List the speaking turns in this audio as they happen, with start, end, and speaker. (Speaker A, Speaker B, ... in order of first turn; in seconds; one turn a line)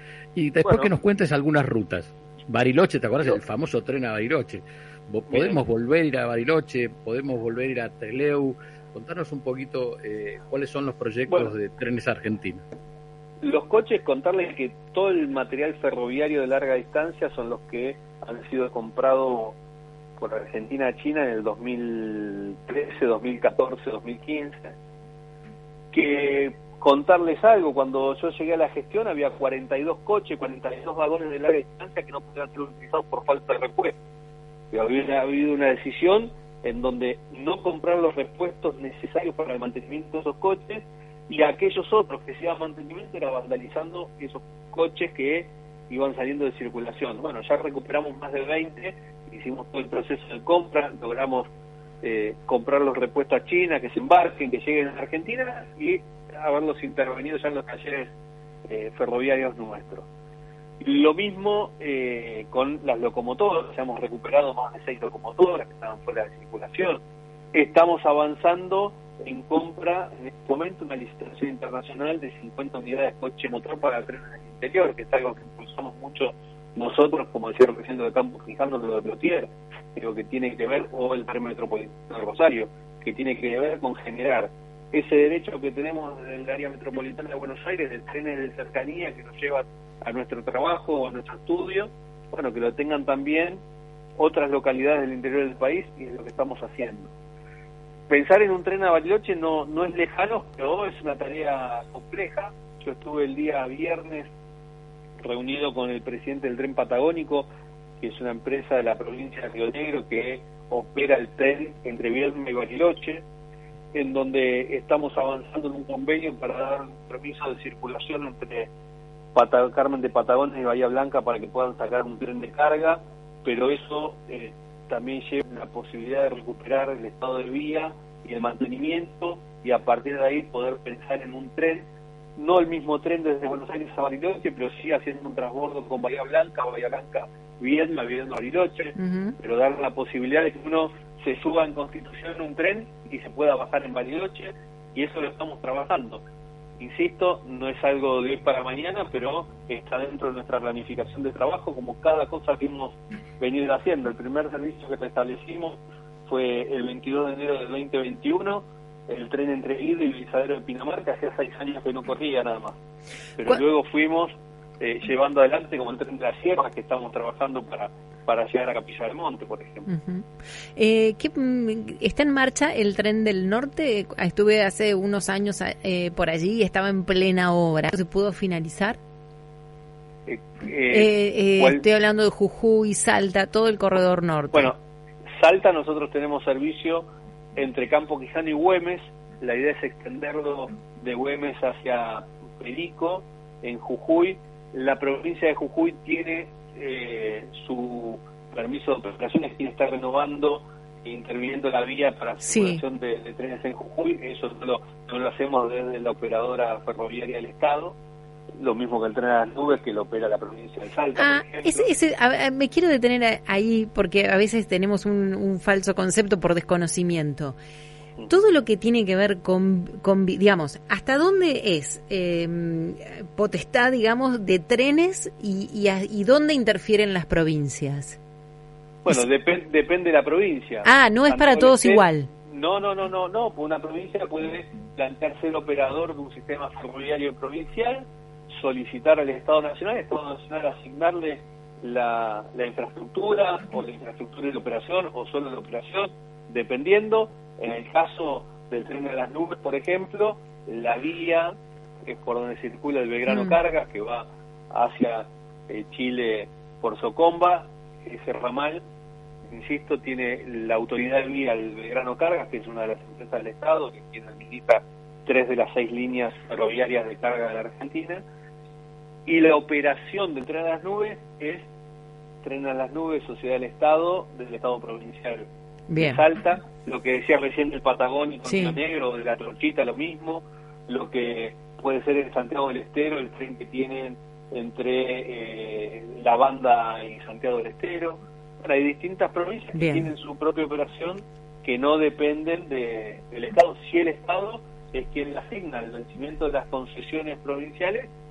Speaker A: 0.3-12.6
Speaker B: 0.6-0.9
Speaker B: 5.3-5.6
Speaker B: 13.4-19.6
Speaker B: 20.2-24.7
Speaker B: 25.9-34.0
Speaker B: 34.7-51.5
Speaker B: 52.0-58.1
Speaker B: 58.7-60.1
Speaker B: 60.8-67.0
Speaker B: 67.5-93.6
Speaker B: 94.2-97.1
Speaker B: 98.1-104.3
Speaker B: 105.2-107.5
Speaker B: 108.0-113.2
Speaker B: 113.9-118.7
Speaker B: 119.3-131.8
Speaker B: 132.4-146.2
Speaker C: 139.0-139.4
Speaker B: 146.8-162.8
Speaker B: 163.4-169.9
Speaker C: 169.9-179.0
Speaker B: 180.3-181.8
Speaker C: 180.9-184.7
Speaker B: 185.4-187.1
Speaker B: 187.6-207.9
Speaker C: 202.4-202.8
Speaker B: 208.6-211.9
Speaker C: 211.2-217.6
Speaker C: 218.3-228.2
Speaker B: 229.0-251.5
Speaker C: 230.8-232.3
Speaker B: 252.1-258.8
Speaker C: 253.3-253.6
Speaker B: 259.5-268.2
Speaker B: 269.3-271.6
Speaker B: 272.4-275.4
Speaker C: 275.9-276.2
Speaker B: 276.0-298.1
Speaker C: 278.5-278.8
Speaker C: 289.8-290.1